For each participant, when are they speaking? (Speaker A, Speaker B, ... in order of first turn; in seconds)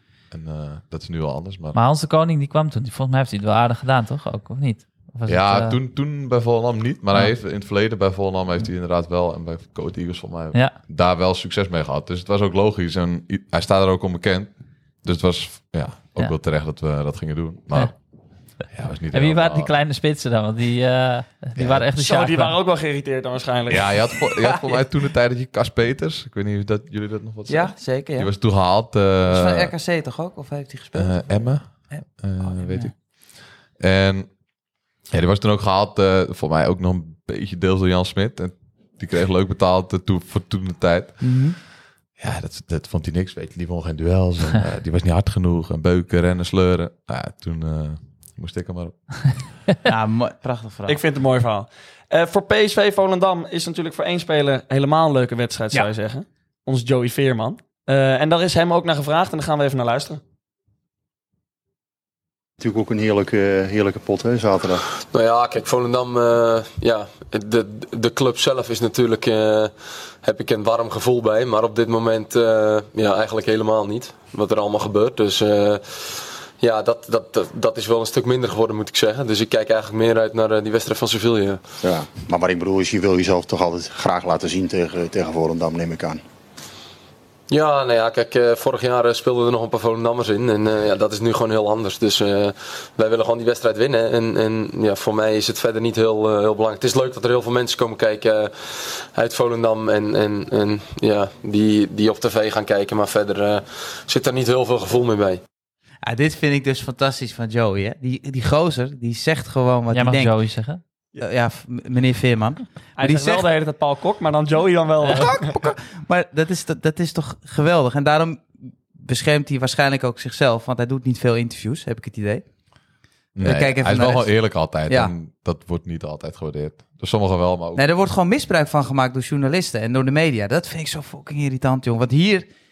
Speaker A: 0.3-1.8, 5.3-14.5, 15.0-18.0, 18.6-19.7, 21.6-21.8, 23.7-29.7, 30.9-33.0, 33.8-34.3, 35.1-41.3, 42.2-49.2, 123.3-127.8
Speaker B: 1.7-5.8, 19.1-22.6, 109.9-110.8
Speaker C: 22.0-24.2, 50.9-60.2, 113.0-115.5
Speaker D: 27.5-28.3, 29.2-32.9, 41.2-41.6, 49.8-51.0, 106.0-110.3, 111.2-113.5, 115.0-122.4, 123.4-124.3, 124.8-125.1, 127.7-132.5
Speaker E: 62.6-64.8, 81.8-86.2
Speaker F: 65.1-81.6, 87.5-105.4